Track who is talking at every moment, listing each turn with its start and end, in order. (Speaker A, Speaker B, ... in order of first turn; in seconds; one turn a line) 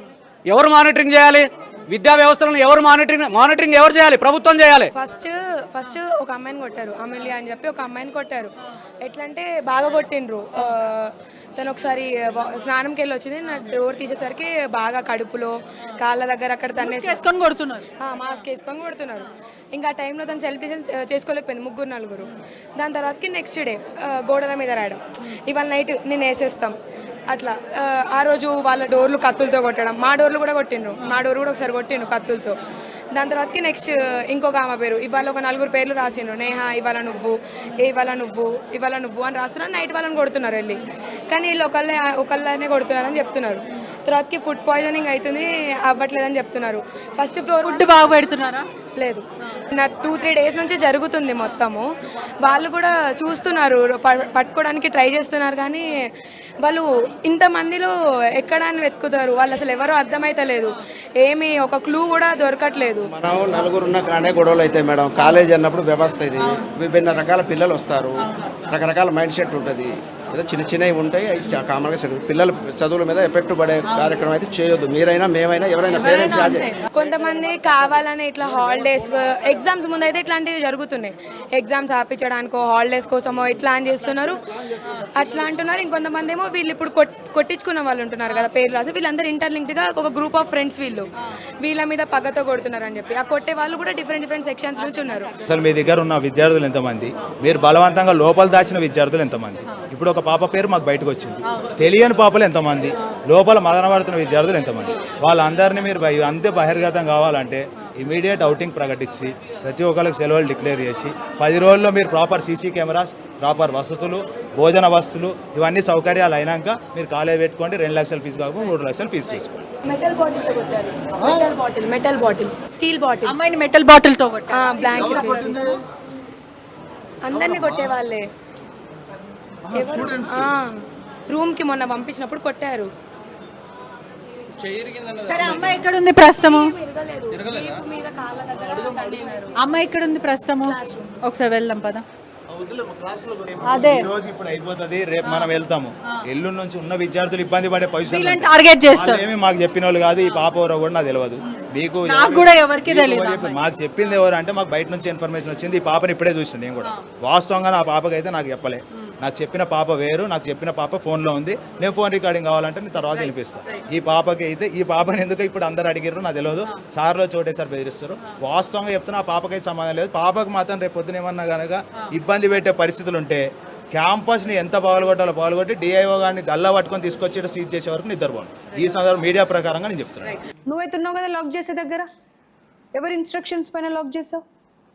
Speaker A: 0.5-4.9
Speaker B: 4.9-17.3
Speaker C: 16.7-17.9
Speaker B: 18.0-26.7
Speaker B: 27.3-32.5
Speaker B: 33.1-48.0
Speaker C: 47.6-48.7
Speaker B: 49.0-51.9
Speaker B: 52.4-55.9
Speaker B: 56.6-63.1
Speaker D: 63.1-76.8
Speaker C: 66.4-66.7
Speaker C: 73.8-74.1
Speaker C: 75.9-76.8
Speaker B: 76.3-84.4
Speaker B: 85.1-91.1
Speaker B: 91.6-95.3
Speaker C: 94.9-95.2
Speaker E: 95.5-119.7
Speaker B: 119.8-123.4
Speaker C: 123.2-125.5
Speaker B: 124.5-125.7
Speaker E: 125.0-125.6
Speaker B: 127.2-128.2
Speaker E: 127.3-127.8
Speaker B: 129.7-130.7
Speaker E: 130.0-130.4
Speaker B: 131.3-132.9
Speaker A: 134.9-135.7
Speaker C: 135.3-136.7
Speaker B: 136.5-139.6
Speaker C: 139.6-142.0
Speaker B: 140.7-141.2
Speaker E: 142.5-180.4
Speaker C: 143.6-144.1
Speaker C: 145.2-145.5
Speaker C: 148.0-149.2
Speaker C: 151.5-153.6
Speaker F: 180.7-182.1
Speaker F: 182.9-184.4